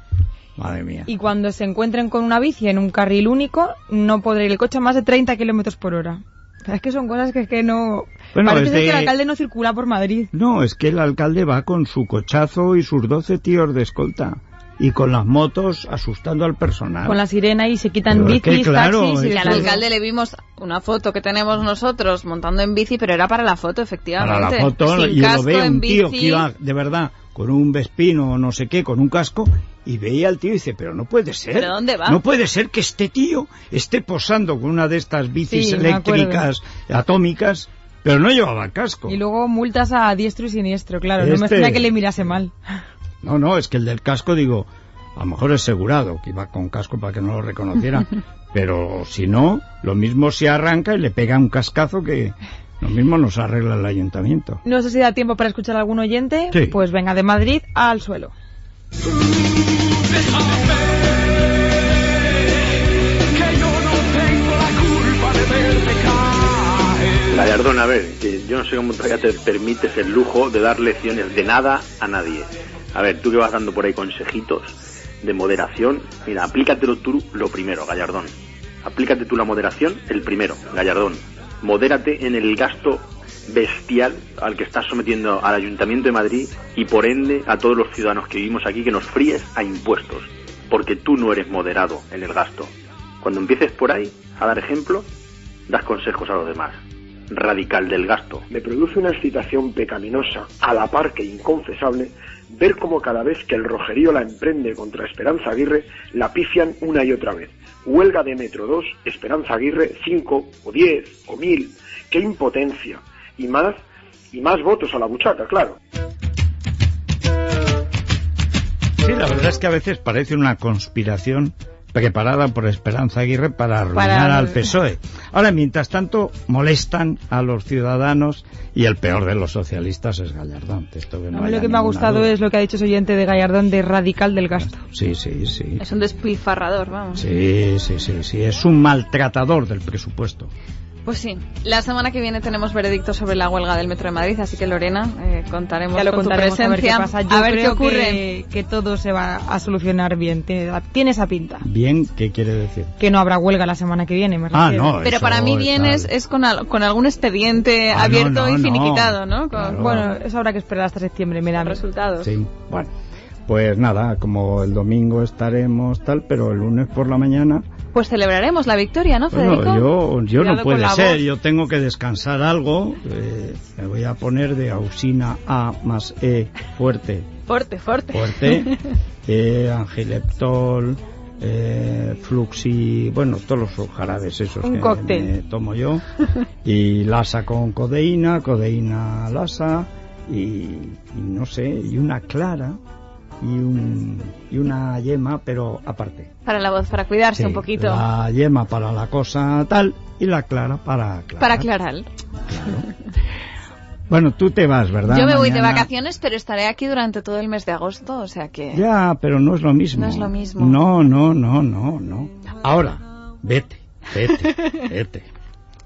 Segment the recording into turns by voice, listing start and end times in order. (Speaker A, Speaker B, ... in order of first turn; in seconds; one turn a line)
Speaker A: 0.6-1.1
Speaker B: 1.1-10.3
Speaker A: 8.3-9.1
Speaker A: 10.3-17.2
Speaker B: 17.1-19.8
Speaker A: 18.1-19.8
Speaker C: 19.3-26.5
Speaker A: 24.2-39.2
Speaker C: 31.5-32.2
Speaker B: 35.5-36.4
Speaker B: 39.1-42.8
Speaker A: 41.2-42.0
Speaker A: 43.2-54.6
Speaker B: 54.6-58.3
Speaker D: 67.3-78.3
Speaker D: 78.8-95.0
Speaker D: 95.7-96.8
Speaker D: 97.3-98.5
Speaker E: 98.5-113.8
Speaker E: 114.3-115.8
Speaker A: 119.0-132.3
Speaker B: 124.0-124.5
Speaker B: 131.3-134.8
Speaker A: 134.7-135.8
Speaker C: 135.8-137.2
Speaker A: 137.1-140.5
Speaker C: 141.1-148.2
Speaker B: 145.9-151.6
Speaker A: 151.6-152.9
Speaker B: 153.0-154.9
Speaker A: 154.5-156.1
Speaker C: 155.0-159.8
Speaker A: 157.9-160.1
Speaker B: 159.7-161.8
Speaker C: 161.6-162.3
Speaker A: 162.2-162.9
Speaker A: 163.5-167.7
Speaker C: 167.9-171.2
Speaker A: 169.3-177.4
Speaker C: 177.5-178.8
Speaker A: 178.1-186.0
Speaker B: 184.6-185.3
Speaker A: 186.6-192.8
Speaker A: 193.4-196.3
Speaker C: 196.4-198.0
Speaker A: 197.3-201.7
Speaker C: 201.4-202.1
Speaker A: 202.5-202.9
Speaker A: 204.1-205.9
Speaker C: 205.1-208.8
Speaker A: 208.7-215.3
Speaker C: 209.9-210.8